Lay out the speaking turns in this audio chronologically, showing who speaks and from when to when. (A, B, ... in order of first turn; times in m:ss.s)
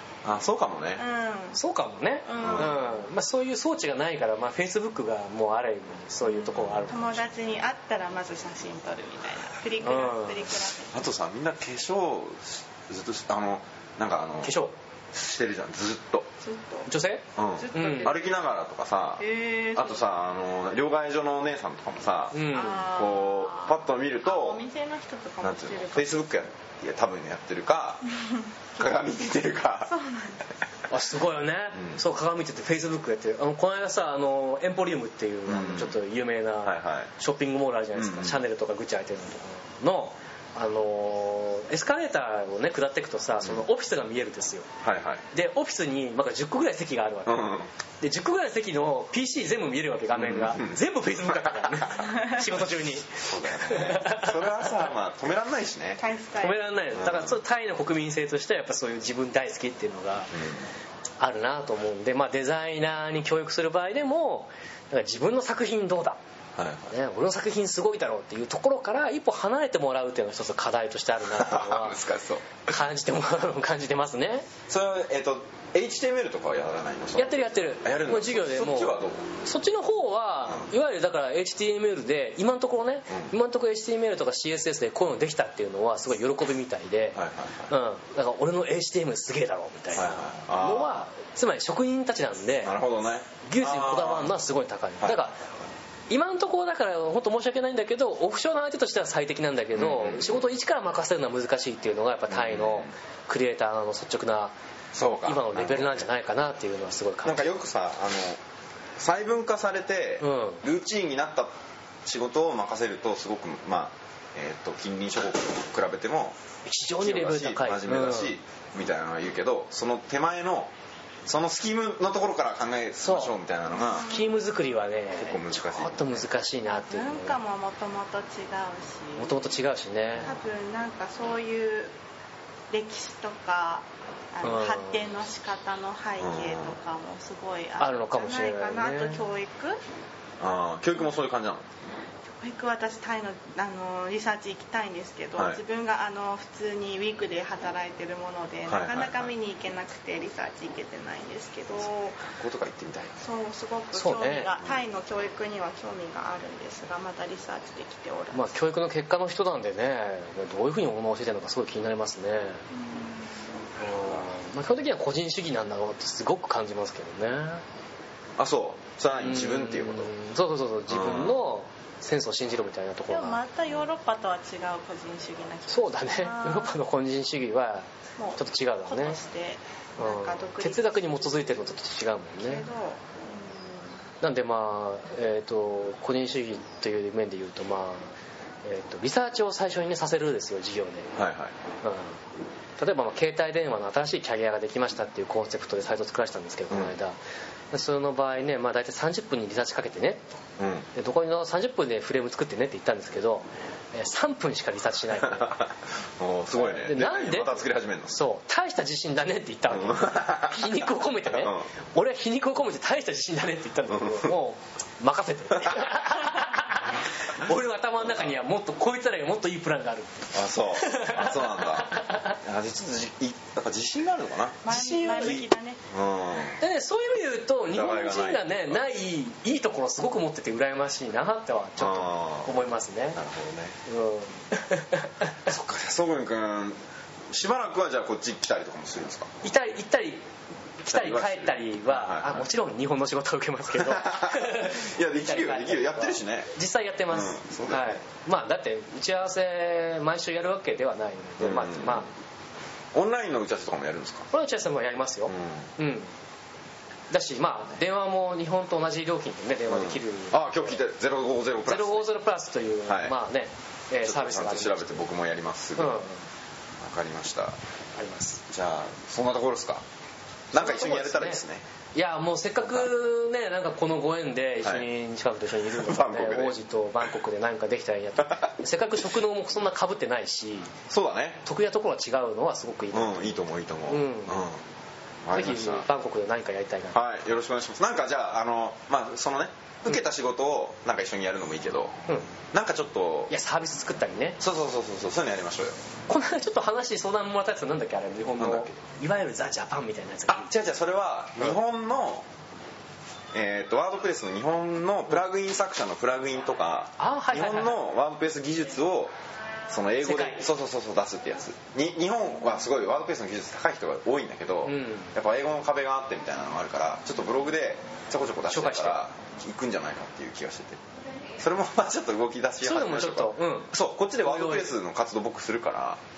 0:00.2-0:01.0 A
0:01.0-0:01.6 B
0:01.5-0:07.2 C
0:02.3-0:02.8 B
0:02.4-0:02.8 A
0:06.2-0:10.9 B
0:09.8-0:10.5 C
0:10.9-0:14.6 A
0:14.4-0:14.7 C
0:15.1-0:16.3 A
0:16.4-0:16.9 B
0:16.9-0:18.2 C
0:17.4-0:19.2 A
0:17.6-0:18.2 B
0:19.2-0:20.1 B
0:19.7-0:24.6 A
0:22.3-0:22.9 C
0:22.5-0:26.2 B
0:25.4-0:28.0 A
0:28.8-0:29.9 A
0:29.8-0:30.4 B
0:30.9-0:44.7 C
0:31.7-0:32.0 A
0:35.5-0:36.0 A
0:36.6-0:37.1 A
0:38.0-0:38.4 A
0:44.8-0:45.2 A
0:45.3-0:54.8 C
0:47.2-0:47.7 A
0:50.1-0:52.0 A
0:53.1-0:56.0 A
0:56.0-0:56.6 B
0:56.4-1:00.4 C
0:56.9-0:57.4 A
1:00.3-1:00.6 A
1:01.2-1:06.2 C
1:06.6-1:06.9 A
1:06.9-1:12.0 C
1:11.3-1:12.6 A
1:12.6-1:14.5 C
1:14.7-1:19.3 A
1:17.2-1:32.8 C
1:27.1-1:27.7 A
1:29.9-1:31.0 A
1:32.6-1:34.4 A
1:33.4-1:35.4 C
1:35.0-1:35.3 A
1:36.1-1:44.5 C
1:39.7-1:40.4 A
1:42.3-1:42.9 A
1:44.9-1:46.1 A
1:45.2-1:47.5 C
1:47.2-1:48.4 A
1:49.0-1:56.4 A
1:50.2-1:50.6 C
1:56.6-1:58.4 C
1:57.0-2:00.7 A
2:01.2-2:04.1 A
2:03.0-2:03.3 C
2:03.7-2:04.5 B
2:04.0-2:07.4 C
2:05.2-2:06.3 A
2:06.8-2:09.4 B
2:09.2-2:10.3 C
2:10.2-2:11.9 B
2:12.7-2:19.8 B
2:14.4-2:15.0 C
2:16.2-2:16.8 A
2:17.8-2:19.2 C
2:20.4-2:21.7 A
2:22.4-2:32.2 B
2:28.7-2:29.3 A
2:32.3-2:33.2 A
2:33.2-2:38.5 B
2:33.9-2:34.5 C
2:38.3-2:42.6 C
2:42.7-2:43.4 B
2:43.8-2:47.6 C
2:48.4-2:50.1 A
2:49.1-2:53.4 C
2:50.9-2:51.4 A
2:53.1-2:56.8 B
2:55.7-2:59.2 C
2:58.2-3:01.5 B
3:00.0-3:02.6 C
3:02.4-3:03.9 B
3:04.2-3:08.1 C
3:08.6-3:11.1 C
3:11.2-3:11.5 A
3:11.8-3:12.2 C
3:12.8-3:17.1 C
3:17.7-3:20.3 C
3:20.6-3:20.9 A
3:20.9-3:25.6 C
3:25.2-3:28.2 A
3:26.6-3:42.4 C
3:29.7-3:31.7 A
3:33.9-3:34.3 A
3:35.6-3:36.0 A
3:40.3-3:44.7 A
3:44.6-3:45.8 B
3:44.7-3:45.4 C
3:45.9-3:46.6 A
3:46.6-3:53.2 C
3:47.7-3:48.8 A
3:51.8-3:52.5 A
3:53.1-3:53.8 A
3:53.8-3:55.4 C
3:55.4-3:56.8 A
3:57.3-3:59.3 A
3:59.4-4:00.2 C
4:00.8-4:12.1 C
4:00.9-4:02.5 A
4:03.7-4:06.5 A
4:07.1-4:08.0 A
4:11.4-4:12.1 A
4:12.9-4:14.3 A
4:14.3-4:16.1 C
4:15.3-4:15.7 A
4:17.1-4:20.8 C
4:19.7-4:22.1 A
4:21.6-4:25.0 C
4:22.8-4:23.1 A
4:24.0-4:26.0 A
4:25.8-4:26.2 C
4:26.8-4:27.6 A
4:28.0-4:28.4 C
4:28.5-4:29.8 A
4:30.5-4:31.6 A
4:30.5-4:31.4 C
4:31.9-4:40.7 C
4:35.7-4:36.6 A
4:38.2-4:38.5 A
4:40.9-4:41.4 A
4:41.4-4:43.3 C
4:42.9-4:44.6 A
4:43.9-4:44.4 C
4:45.2-4:45.9 A
4:45.3-4:47.0 C
4:46.9-4:51.9 A
4:52.5-4:53.3 A
4:53.3-4:54.4 C
4:54.4-4:55.8 A
4:56.1-5:00.5 C
4:58.4-4:58.7 A
5:00.3-5:02.3 A
5:03.3-5:09.1 A
5:07.0-5:07.8 C
5:09.7-5:20.8 A
5:10.0-5:10.4 C
5:14.6-5:15.1 C
5:18.5-5:19.0 C
5:21.4-5:26.0 A
5:22.6-5:24.7 C